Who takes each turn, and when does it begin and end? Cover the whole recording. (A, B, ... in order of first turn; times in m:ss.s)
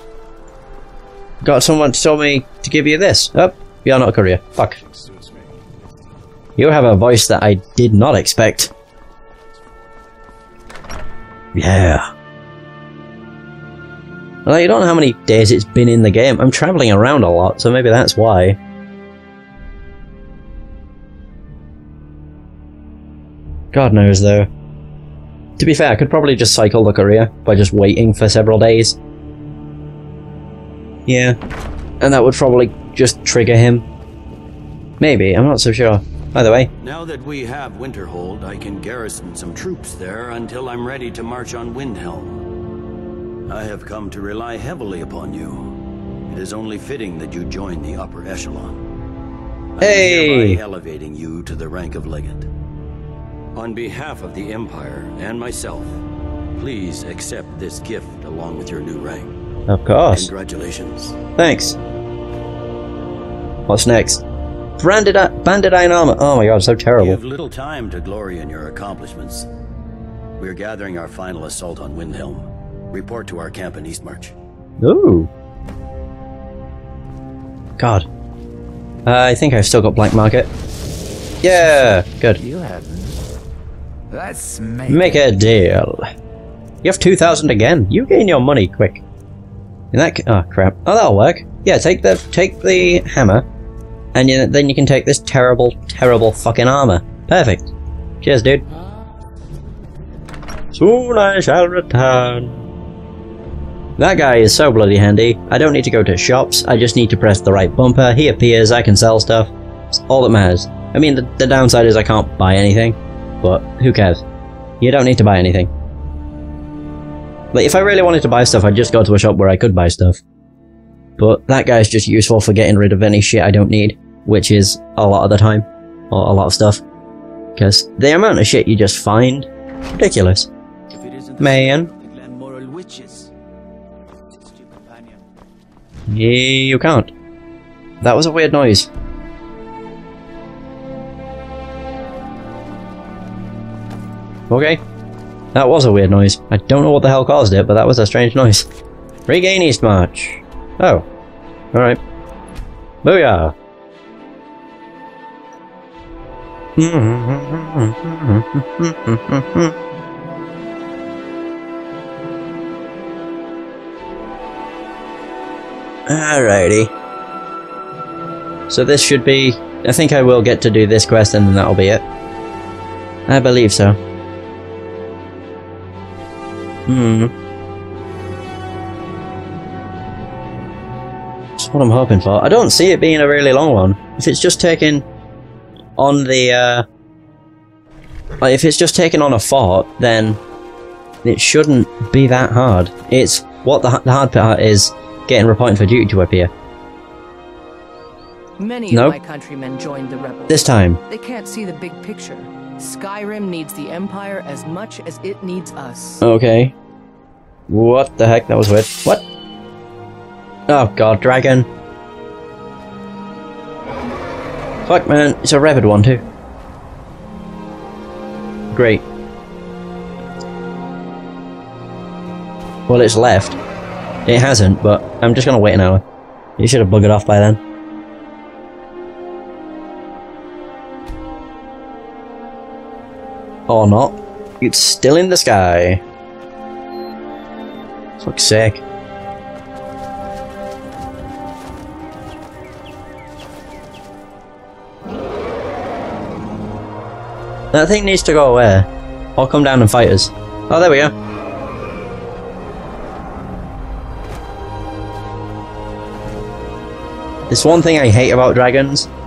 0:01.4-0:04.8 A
0:04.6-0:05.7 B
0:06.6-0:08.7 A
0:09.4-0:10.2 B
0:11.6-0:12.1 A
0:14.5-0:18.6 A
0:23.7-0:24.5 A
0:25.6-0:29.0 A
0:31.1-0:31.4 A
0:32.0-0:33.8 A
0:35.0-0:36.7 A
0:36.8-0:42.4 C
0:43.5-0:45.8 C
0:46.3-0:48.8 C
0:49.8-0:52.5 C
0:49.8-0:50.6 A
0:53.6-0:56.0 C
0:56.6-0:59.3 C
0:59.7-1:00.3 A
1:00.1-1:01.2 C
1:01.4-1:01.8 A
1:03.7-1:04.2 A
1:04.8-1:07.2 A
1:07.0-1:09.5 C
1:10.4-1:14.3 C
1:14.8-1:15.3 A
1:17.8-1:18.1 A
1:19.1-1:20.5 A
1:21.4-1:22.4 A
1:22.4-1:23.2 B
1:24.1-1:25.3 B
1:24.9-1:26.1 A
1:26.8-1:29.0 A
1:29.9-1:33.4 A
1:34.1-1:37.7 A
1:38.2-1:38.6 A
1:40.7-1:42.5 A
1:44.0-1:54.2 A
1:54.8-1:55.7 A
1:57.5-2:00.2 A
2:01.2-2:06.8 A
2:07.6-2:10.5 A
2:10.9-2:13.3 B
2:11.4-2:11.9 A
2:14.3-2:15.3 B
2:16.1-2:17.1 A
2:18.0-2:18.9 A
2:24.5-2:24.8 A
2:25.5-2:28.7 A
2:29.3-2:31.1 A
2:31.7-2:32.0 A
2:33.0-2:33.5 A
2:36.8-2:39.8 A
2:46.1-2:46.9 A
2:48.7-2:52.0 A
2:53.3-2:54.0 A
2:56.9-2:57.3 A
3:01.6-3:05.0 A
3:06.0-3:06.9 A
3:08.4-3:10.4 A
3:11.2-3:16.5 A
3:18.6-3:26.2 D
3:18.9-3:19.2 A
3:20.5-3:21.0 A
3:26.2-3:26.7 A
3:27.7-3:29.2 A
3:30.7-3:31.7 A
3:34.9-3:36.2 A
3:38.7-3:39.0 A
3:42.9-3:43.6 A
3:44.3-3:46.0 A
3:46.6-3:47.6 A
3:53.7-3:56.0 A
3:58.2-3:58.8 A
4:07.7-4:11.1 A
4:17.5-4:19.1 A